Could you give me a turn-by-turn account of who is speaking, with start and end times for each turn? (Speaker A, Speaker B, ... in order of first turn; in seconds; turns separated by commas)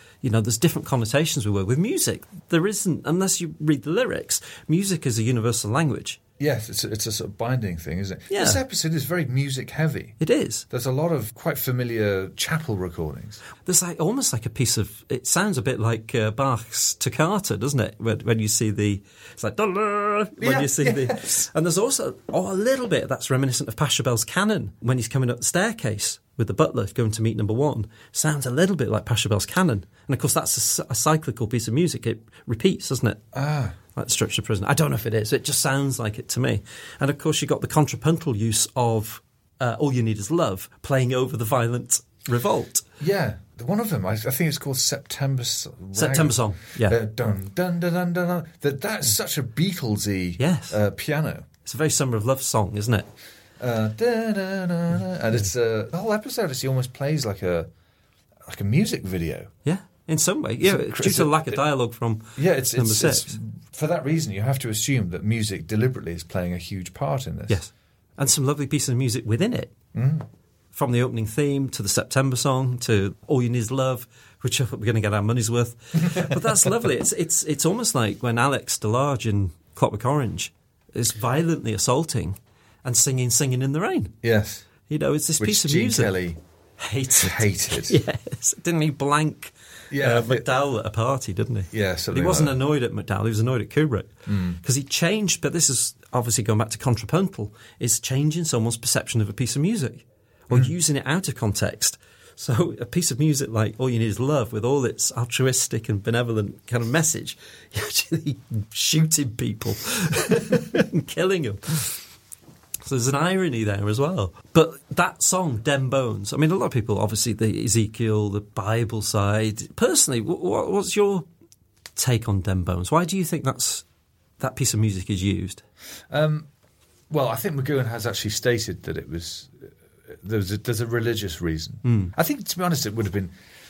Speaker A: 0.2-6.2, Speaker B: 6.4-10.2, Speaker A: 8.3-8.6, Speaker A: 10.2-10.7, Speaker B: 10.7-13.4, Speaker A: 13.6-33.2, Speaker B: 20.4-21.5, Speaker B: 33.3-33.8, Speaker A: 33.9-42.9, Speaker B: 43.0-51.5, Speaker A: 46.0-47.0, Speaker A: 50.4-50.8, Speaker A: 51.6-53.1, Speaker B: 53.6-57.7, Speaker B: 58.5-59.5, Speaker A: 59.6-63.4, Speaker B: 60.6-61.6, Speaker B: 62.4-67.6, Speaker A: 67.5-69.7, Speaker B: 69.9-70.3, Speaker A: 70.7-84.2, Speaker B: 76.1-76.4, Speaker B: 84.2-84.7, Speaker A: 84.9-86.1, Speaker B: 85.4-86.4, Speaker A: 86.8-112.0, Speaker B: 87.2-88.0, Speaker B: 89.9-90.5, Speaker B: 91.7-92.6, Speaker B: 94.3-94.6, Speaker A: 112.8-121.2, Speaker A: 122.0-123.8, Speaker A: 124.4-125.6, Speaker B: 126.1-126.5, Speaker B: 127.1-133.3, Speaker A: 131.8-132.1